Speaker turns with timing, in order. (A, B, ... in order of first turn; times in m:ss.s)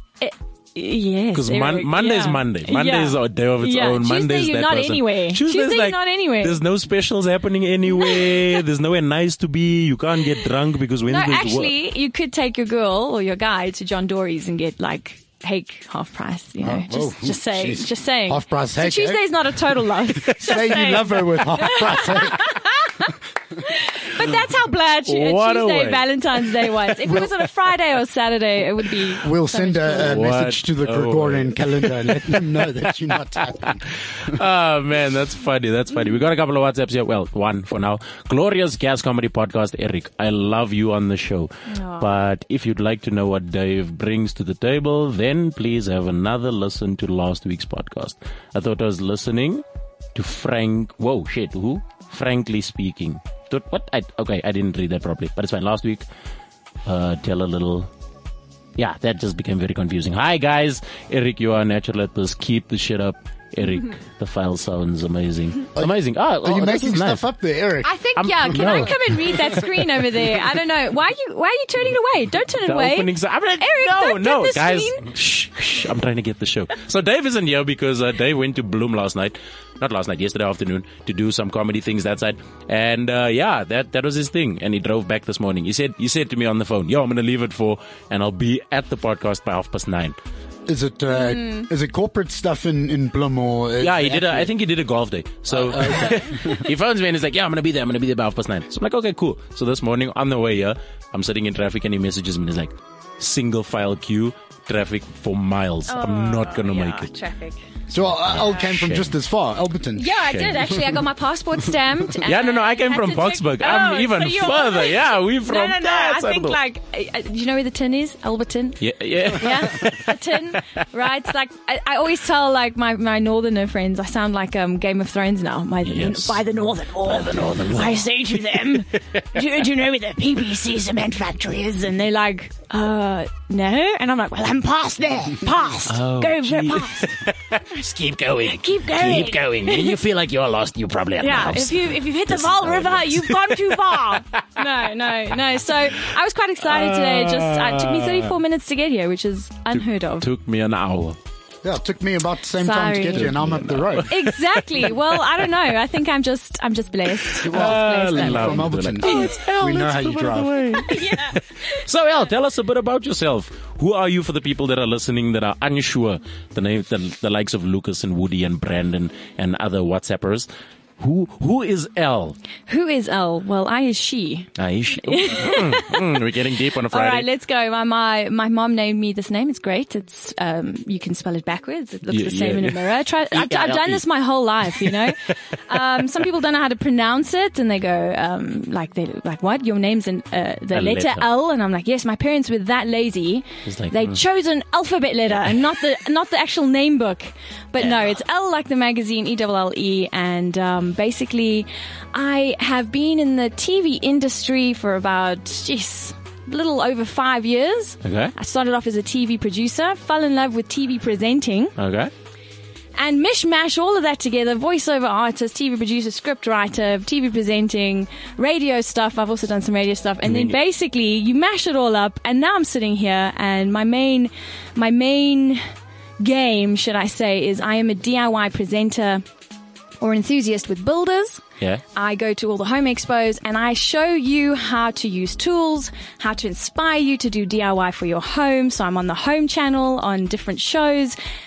0:00.2-0:06.6 A
0:01.3-0:11.7 B
0:07.9-0:08.6 A
0:11.1-0:30.2 A
0:16.6-0:19.2 C
0:20.4-0:22.5 C
0:25.0-0:26.9 B
0:29.2-0:34.3 C
0:30.0-0:32.5 B
0:34.1-0:49.6 B
0:41.7-0:42.1 A
0:50.1-0:56.0 B
0:56.8-0:57.9 B
0:58.8-1:07.2 B
1:05.8-1:08.0 C
1:07.8-1:15.0 A
1:08.2-1:09.4 B
1:08.5-1:08.9 C
1:12.6-1:30.2 B
1:30.7-1:34.5 C
1:31.4-1:31.6 A
1:33.8-1:47.1 B
1:35.5-1:36.6 C
1:45.9-1:47.6 A
1:47.9-1:50.1 C
1:48.0-1:49.1 B
1:50.0-1:58.8 A
1:50.2-1:50.8 B
1:52.2-1:56.6 B
1:58.8-2:00.6 B
1:59.3-2:17.2 A
2:05.8-2:06.4 B
2:07.0-2:08.0 B
2:15.9-2:24.6 B
2:18.4-2:20.0 A
2:21.2-2:30.3 A
2:26.6-2:28.3 B
2:29.7-2:31.2 B
2:31.6-2:34.1 C
2:32.6-2:33.3 A
2:33.1-2:35.2 B
2:34.1-2:39.3 A
2:37.3-2:50.5 B
2:37.4-2:40.8 C
2:40.8-2:41.8 A
2:51.0-2:52.4 B
2:52.7-2:54.5 A
2:54.6-2:57.3 B
2:55.0-2:56.1 A
2:56.9-3:31.7 A
3:02.1-3:04.0 B
3:04.6-3:05.1 B
3:10.7-3:11.3 B
3:13.6-3:14.2 B
3:17.8-3:18.1 B
3:28.0-3:28.3 B
3:31.8-3:32.1 B
3:33.0-3:45.6 A
3:40.2-3:40.6 B
3:46.2-3:49.2 A
3:50.0-3:51.4 A
3:51.9-4:01.2 A